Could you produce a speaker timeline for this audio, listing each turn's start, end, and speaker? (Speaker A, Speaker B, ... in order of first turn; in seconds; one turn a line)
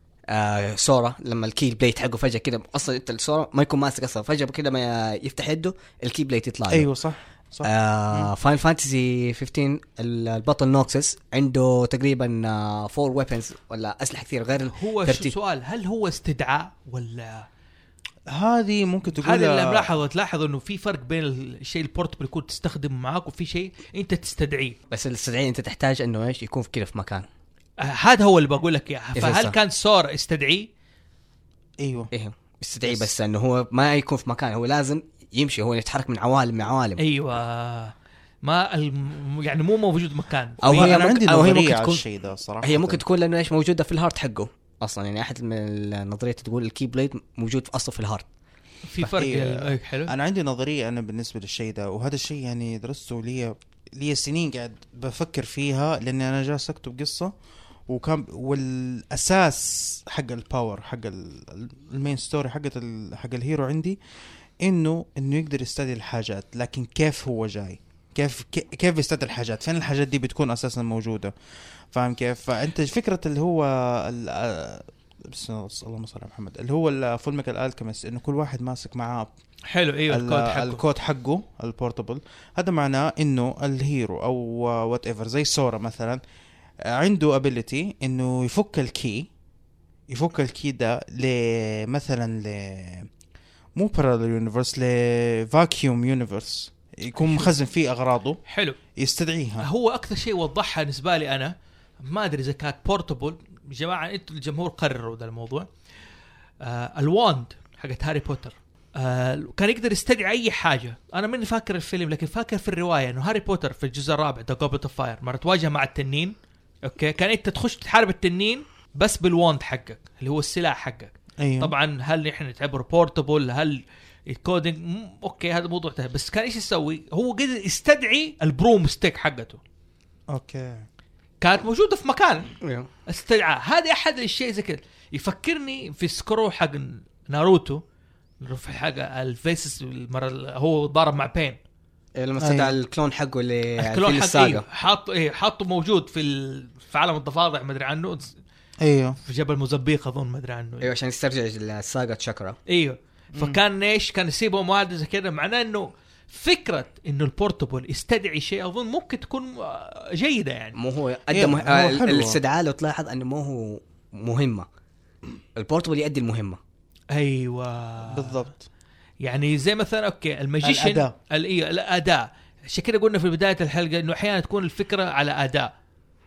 Speaker A: 0.3-6.9
Speaker B: 6.7-8.3
Speaker A: 7.6-15.3
Speaker C: 14.7-17.5
Speaker B: 18.3-19.9
Speaker C: 19.2-24.8
Speaker A: 24.9-27.2
Speaker C: 27.8-30.7
Speaker A: 29.1-29.5
Speaker B: 31.8-32.1
Speaker A: 32.1-37.0
Speaker C: 37.0-40.9
Speaker A: 40.6-42.0
Speaker B: 40.6-43.0
Speaker A: 42.6-48.3
Speaker C: 48.9-50.1
Speaker B: 49.2-57.3
Speaker B: 57.9-64.0
Speaker B: 64.6-71.3
Speaker B: 71.9-79.3
Speaker C: 79.7-80.8
Speaker B: 80.1-86.2
Speaker B: 86.9-89.3
Speaker B: 90.1-93.1
Speaker B: 93.8-98.4
Speaker C: 97.2-97.5
Speaker C: 98.5-98.8
Speaker B: 99.0-99.7
Speaker C: 99.6-105.7
Speaker C: 106.6-129.6
Speaker B: 121.4-121.7
Speaker B: 130.3-130.8
Speaker C: 131.4-132.5
Speaker A: 132.6-132.9
Speaker C: 133.1-137.8
Speaker C: 138.4-141.6
Speaker A: 142.2-144.6
Speaker B: 142.4-142.8
Speaker C: 143.8-148.4
Speaker B: 148.8-149.2
Speaker C: 149.2-150.9
Speaker A: 150.8-152.6
Speaker C: 152.7-160.8
Speaker A: 160.8-164.7
Speaker B: 161.3-162.4
Speaker A: 165.6-166.6
Speaker C: 167.1-168.5
Speaker B: 168.1-168.6
Speaker C: 169.2-175.7
Speaker B: 170.6-171.1